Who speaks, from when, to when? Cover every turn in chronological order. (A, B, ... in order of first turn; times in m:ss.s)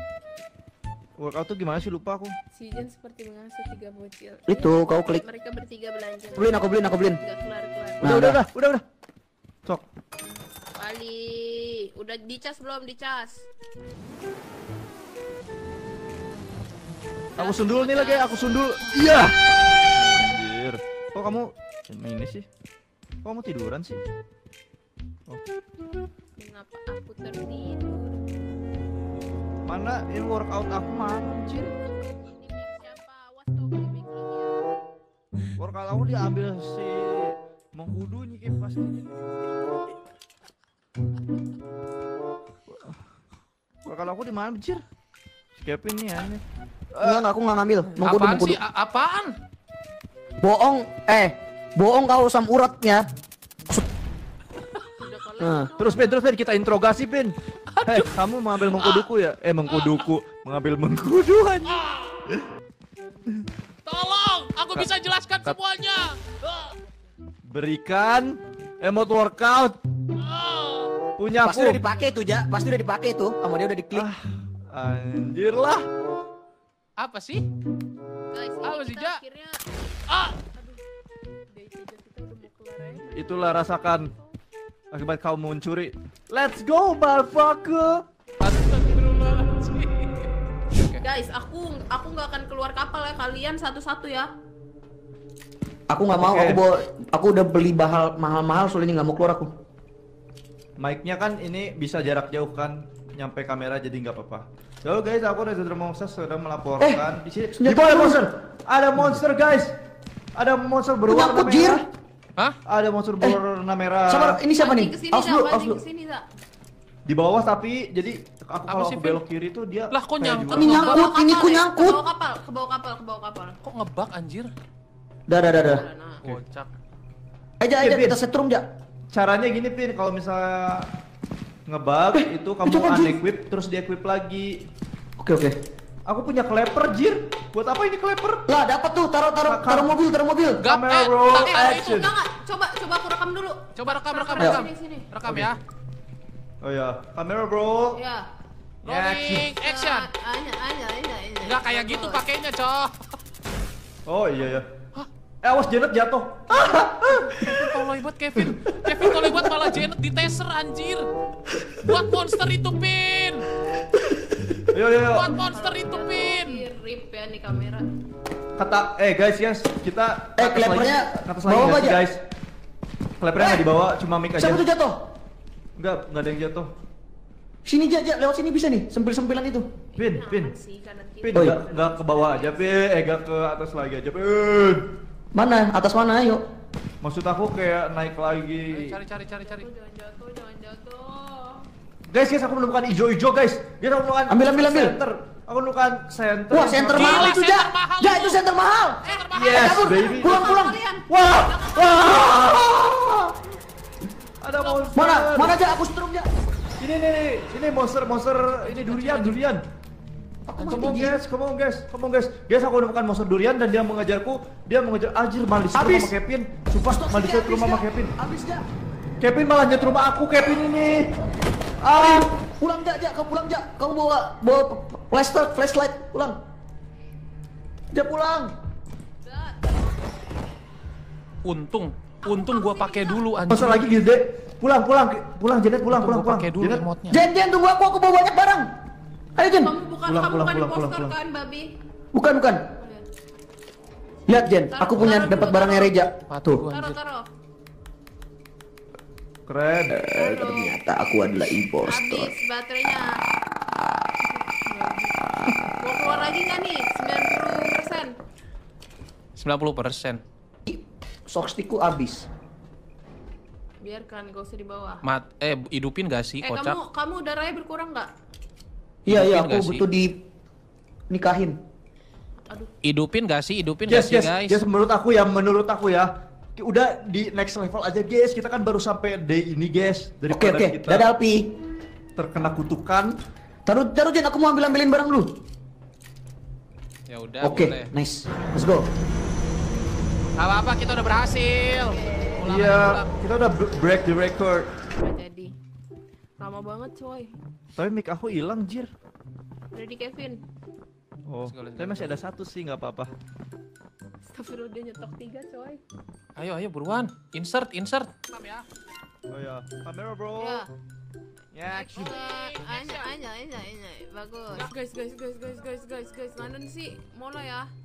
0:01.2-0:02.4 A
0:02.5-0:08.2 B
0:04.5-0:05.2 C
0:06.4-0:07.2 C
0:08.0-0:08.4 C
0:08.0-0:08.8 A
0:10.8-0:13.5 B
0:17.3-0:18.8 B
0:17.4-0:19.4 A
0:19.9-0:22.5 A
0:23.2-0:24.0 A
0:26.4-0:28.2 B
0:29.7-0:31.7 A
0:31.8-0:34.6 B
0:35.6-0:39.2 A
0:42.7-0:43.0 A
0:43.8-0:44.8 A
0:45.6-0:46.4 A
0:46.9-0:47.2 A
0:47.0-0:48.6 C
0:48.0-0:49.4 D
0:50.4-0:53.0 C
0:54.9-0:56.7 B
0:55.4-0:55.7 C
0:55.8-1:02.5 A
0:57.7-0:59.1 D
0:59.7-1:00.1 D
1:01.7-1:02.2 D
1:03.9-1:06.7 D
1:07.5-1:09.8 A
1:10.2-1:10.9 D
1:11.2-1:11.8 A
1:11.4-1:14.1 C
1:13.9-1:15.9 A
1:17.0-1:17.4 D
1:18.3-1:19.6 B
1:18.6-1:19.2 D
1:20.1-1:20.4 D
1:21.5-1:24.1 B
1:23.1-1:24.1 A
1:24.9-1:28.0 A
1:28.4-1:31.0 D
1:31.0-1:34.3 B
1:35.9-1:39.5 C
1:36.2-1:36.6 A
1:40.8-1:49.7 A
1:46.8-1:48.2 C
1:50.4-1:51.9 A
1:51.1-1:51.8 C
1:52.7-1:54.4 A
1:54.1-1:55.8 C
1:54.6-1:56.3 B
1:57.1-2:00.9 A
1:58.7-1:59.2 D
1:59.9-2:01.1 D
2:00.5-2:02.0 C
2:00.8-2:03.6 B
2:03.6-2:04.5 D
2:05.3-2:05.8 C
2:05.6-2:06.2 B
2:06.2-2:06.7 D
2:07.6-2:08.7 C
2:07.8-2:08.2 A
2:09.1-2:10.9 A
2:11.7-2:14.6 A
2:12.1-2:13.2 C
2:15.2-2:15.6 C
2:16.1-2:18.5 A
2:18.5-2:20.6 C
2:19.5-2:19.9 A
2:20.6-2:22.1 D
2:20.6-2:22.1 A
2:21.3-2:25.1 B
2:23.8-2:25.6 D
2:25.3-2:25.5 A
2:26.6-2:28.0 A
2:27.9-2:28.3 B
2:28.8-2:29.5 A
2:28.8-2:30.1 D
2:29.6-2:32.2 B
2:31.4-2:33.0 D
2:34.1-2:34.7 A
2:35.4-2:37.8 A
2:37.3-2:41.1 D
2:38.4-2:39.7 A
2:41.8-2:43.5 D
2:44.7-2:45.4 A
2:45.0-2:46.7 D
2:45.4-2:47.9 B
2:48.6-2:52.2 A
2:50.4-2:52.0 C
2:53.2-2:54.6 A
2:53.4-2:53.7 C
2:54.4-2:55.0 C
2:55.8-2:56.7 A
2:57.6-2:59.7 C
2:59.9-3:02.9 B
3:00.0-3:00.6 A
3:01.2-3:04.9 A
3:01.3-3:01.6 C
3:05.4-3:06.4 C
3:07.0-3:09.0 A
3:08.7-3:09.7 D
3:09.2-3:11.7 B
3:12.1-3:17.4 A
3:14.3-3:15.0 C
3:16.5-3:19.0 C
3:16.9-3:18.4 D
3:19.0-3:20.1 D
3:19.0-3:22.7 B
3:19.3-3:23.4 A
3:19.5-3:20.8 C
3:24.4-3:25.6 A
3:24.5-3:25.0 B
3:24.9-3:26.3 C
3:26.8-3:29.6 A
3:28.6-3:29.4 D
3:30.5-3:31.2 C
3:30.6-3:31.1 D
3:30.7-3:38.1 A
3:35.7-3:36.1 C
3:36.8-3:38.6 C
3:39.2-3:41.1 A
3:41.8-3:42.3 A
3:41.9-3:46.4 C
3:47.9-3:48.5 C
3:49.2-3:49.9 B
3:51.4-3:53.9 D
3:52.2-3:53.2 B
3:53.5-3:56.8 A
3:56.0-3:57.2 D
3:57.1-3:58.7 C
3:59.4-3:59.7 C
3:59.4-4:01.7 B
4:00.0-4:01.2 A
4:02.1-4:02.6 C
4:02.8-4:03.0 B
4:04.3-4:06.6 C
4:04.7-4:05.9 B
4:05.0-4:05.5 D
4:06.3-4:07.0 D
4:06.7-4:07.3 B
4:09.5-4:10.0 A
4:09.9-4:12.3 C
4:10.1-4:10.8 B
4:11.8-4:13.1 B
4:14.2-4:15.2 B
4:15.7-4:18.1 B
4:19.4-4:20.2 D
4:20.7-4:22.3 C
4:23.8-4:25.0 B
4:25.0-4:26.8 D
4:26.4-4:28.1 B
4:29.0-4:30.2 C
4:29.1-4:29.8 D
4:31.1-4:31.6 C
4:32.8-4:34.6 D
4:33.9-4:41.1 A
4:40.3-4:41.5 C
4:42.2-4:43.2 A
4:43.7-4:45.4 C
4:47.1-4:47.9 D
4:47.4-4:48.9 C
4:50.4-4:53.1 D
4:51.9-4:52.4 B
4:52.4-4:54.7 A
4:55.0-4:55.5 B
4:56.4-4:57.3 B
4:57.8-4:58.9 A
4:59.7-5:00.4 B
5:01.3-5:03.1 A
5:01.5-5:02.2 D
5:04.3-5:05.8 B
5:06.4-5:08.7 D
5:09.3-5:10.7 A
5:10.4-5:10.7 B
5:11.5-5:12.2 A
5:11.7-5:17.7 B
5:11.9-5:13.2 D